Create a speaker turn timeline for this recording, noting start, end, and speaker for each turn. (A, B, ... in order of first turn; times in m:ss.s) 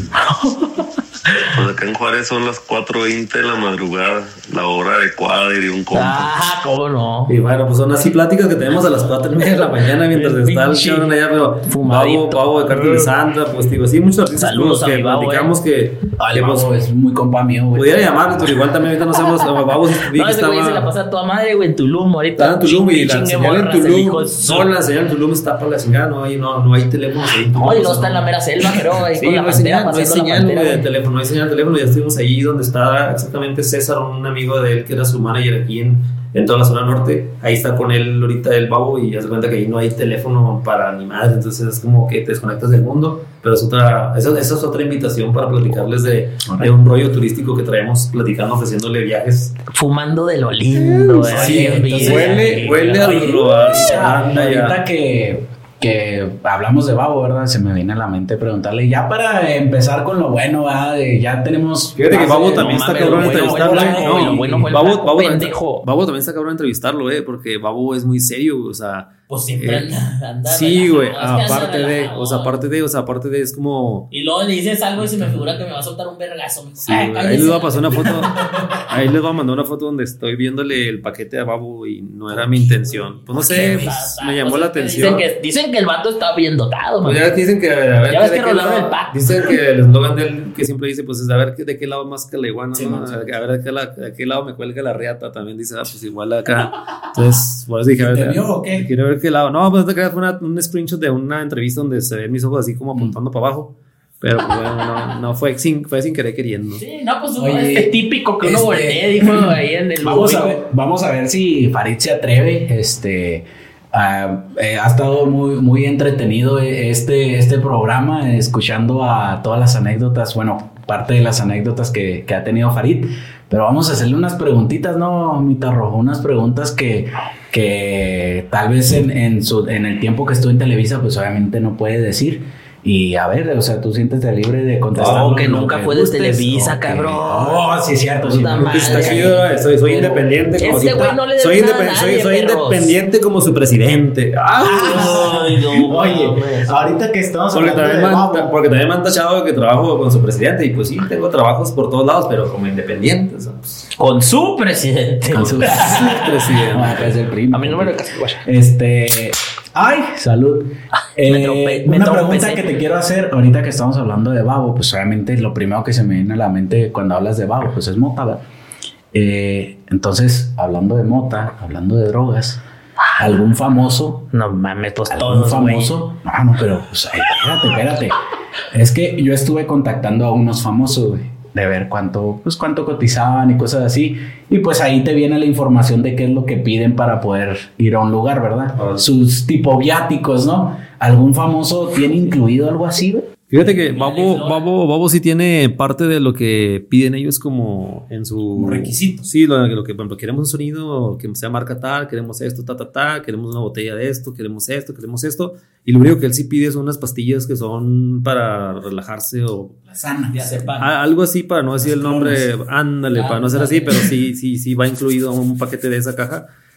0:00.2-0:00.8 A
0:01.5-0:06.5 B
0:05.9-0:07.3 A
0:07.3-0:16.7 C
0:10.1-0:11.1 A
0:11.6-0:13.1 A
0:14.4-0:15.5 A
0:16.2-0:18.5 D
0:17.7-0:20.9 C
0:20.1-0:24.7 A
0:22.4-0:28.3 C
0:27.6-0:30.8 A
0:29.0-0:49.6 C
0:49.7-0:53.4 A
0:50.7-0:54.8 C
0:51.3-1:04.7 D
1:02.0-1:09.9 C
1:02.6-1:05.8 A
1:09.3-1:12.5 A
1:10.4-1:14.1 C
1:14.1-1:18.7 A
1:16.8-1:25.2 C
1:22.6-1:27.2 A
1:22.6-1:23.9 D
1:27.0-1:46.8 C
1:28.1-1:29.2 A
1:32.7-1:33.3 D
1:38.0-1:38.9 D
1:46.8-1:50.6 A
1:47.4-2:20.2 D
2:15.0-2:15.6 C
2:15.0-2:17.6 A
2:18.2-2:19.4 A
2:18.4-2:25.7 C
2:20.6-2:22.9 A
2:24.6-2:28.5 D
2:24.7-2:26.7 A
2:27.5-2:33.8 C
2:34.0-2:36.2 A
2:35.3-2:48.4 D
2:35.4-2:37.1 C
2:37.5-2:38.4 A
2:41.2-2:42.6 A
2:49.1-2:52.6 D
2:53.2-2:54.2 D
2:54.3-2:55.9 A
2:55.1-2:58.1 D
2:58.7-3:13.4 D
3:08.7-3:09.0 C
3:13.5-3:29.8 C
3:13.6-3:14.6 A
3:18.5-3:19.2 D
3:29.9-3:30.6 D
3:30.3-3:30.9 A
3:30.8-3:36.5 C
3:31.8-3:32.4 D
3:33.1-3:34.0 A